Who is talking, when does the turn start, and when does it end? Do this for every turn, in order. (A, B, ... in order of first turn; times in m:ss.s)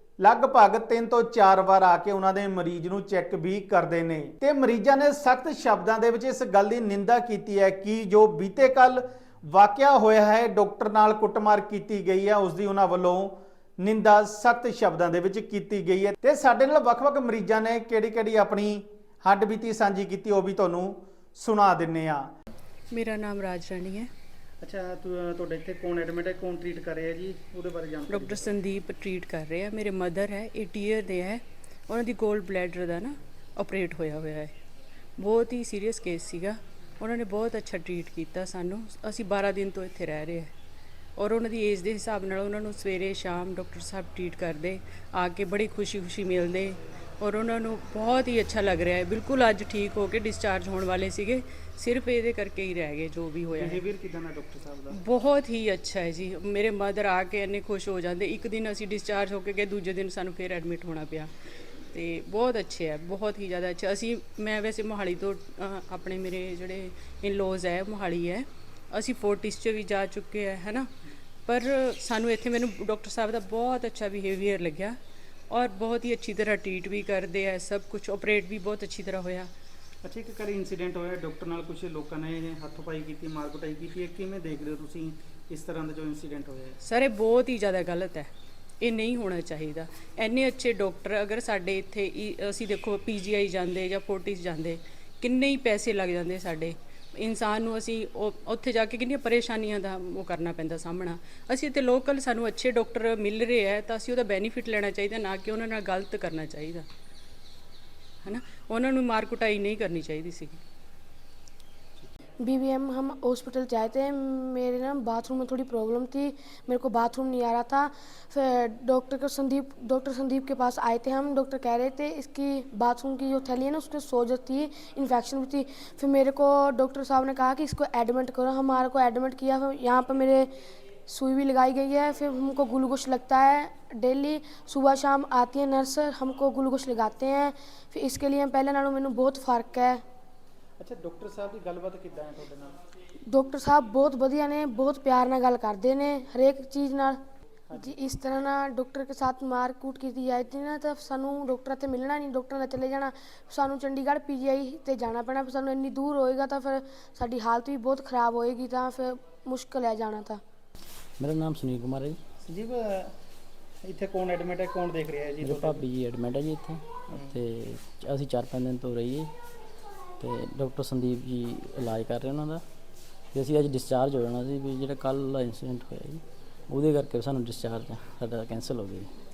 0:00.2-0:22.3 A
0:22.9-0:24.1 B
0:24.6-0:28.4 C
0:28.1-0:34.5 B
0:35.2-0:40.5 B
0:41.2-0:53.8 B
0:53.6-0:54.9 C
0:54.9-1:01.3 B
1:01.9-1:10.9 B
1:11.5-1:15.0 B
1:15.5-1:19.5 B
1:20.0-1:26.8 C
1:26.8-1:28.3 B
1:28.8-1:46.8 B
1:48.2-1:50.6 B
1:52.4-2:10.5 D
2:11.1-2:20.0 D
2:20.8-2:22.7 C
2:23.3-2:27.2 D
2:27.8-2:40.4 D
2:41.2-2:42.2 E
2:42.4-2:43.0 C
2:43.9-2:45.7 C
2:45.4-2:49.3 E
2:50.2-2:52.6 E
2:53.3-2:59.1 E